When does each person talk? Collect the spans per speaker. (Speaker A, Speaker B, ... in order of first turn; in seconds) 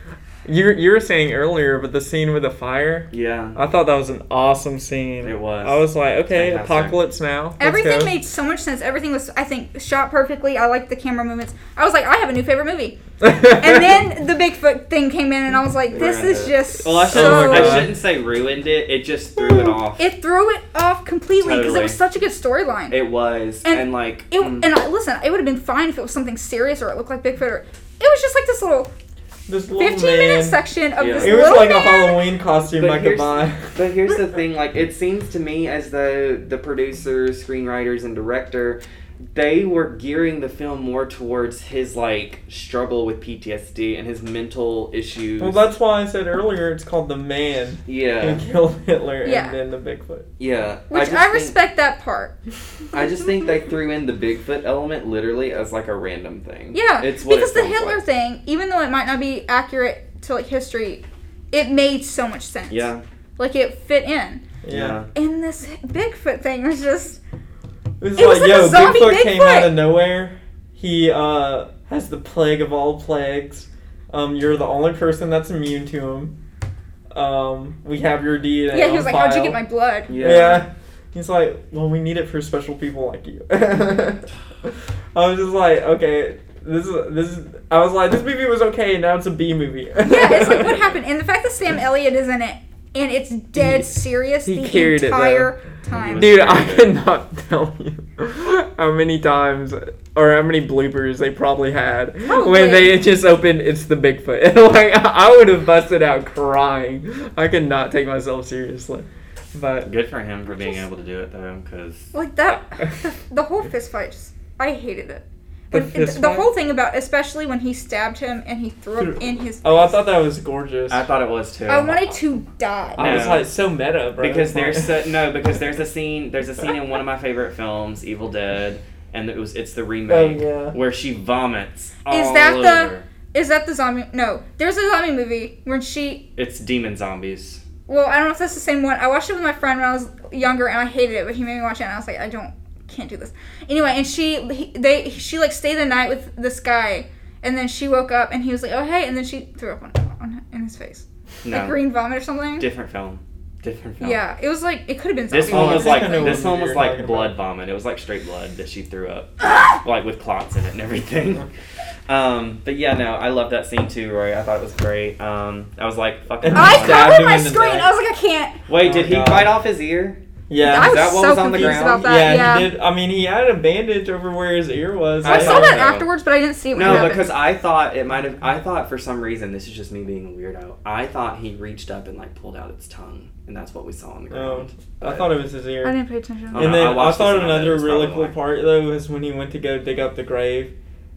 Speaker A: 0.5-8.2, 13.2-14.0, 17.0-18.0, 29.5-30.6, 31.2-33.7, 45.4-50.3, 64.6-65.0, 68.0-76.4, 77.1-79.6, 80.1-90.8, 93.6-93.9, 94.4-95.5, 96.1-109.9, 115.7-116.5, 119.0-121.1, 123.0-125.0, 130.1-130.8, 155.5-157.4, 166.4-167.9, 168.8-169.6, 170.5-175.9, 176.8-177.2, 184.3-186.0, 186.5-190.7
Speaker B: 3.1-3.6, 5.2-7.0, 15.9-20.0, 21.4-22.0, 22.9-24.7, 31.0-31.6, 32.7-38.8, 39.3-45.6, 47.9-48.4, 50.4-51.6, 52.9-58.0, 62.7-63.0, 64.7-65.1, 80.1-80.7, 95.9-96.9, 109.8-112.1, 120.9-122.1, 123.0-123.5, 124.2-133.1, 136.4-137.6, 151.4-151.9, 152.6-154.2, 155.3-161.5, 162.1-167.2, 168.7-172.3, 175.2-176.1, 176.7-185.3, 186.5-188.4
Speaker C: 7.6-17.9, 20.0-23.0, 23.6-28.9, 29.8-32.2, 49.2-49.6, 50.9-52.3, 56.7-64.4, 65.2-67.2, 68.2-69.9, 78.7-80.1, 90.0-96.4, 102.2-103.0, 112.1-120.0, 121.7-123.1, 132.1-136.2, 137.9-152.7, 154.0-156.5, 166.5-168.6, 170.6-172.7, 175.2-177.3, 185.8-186.9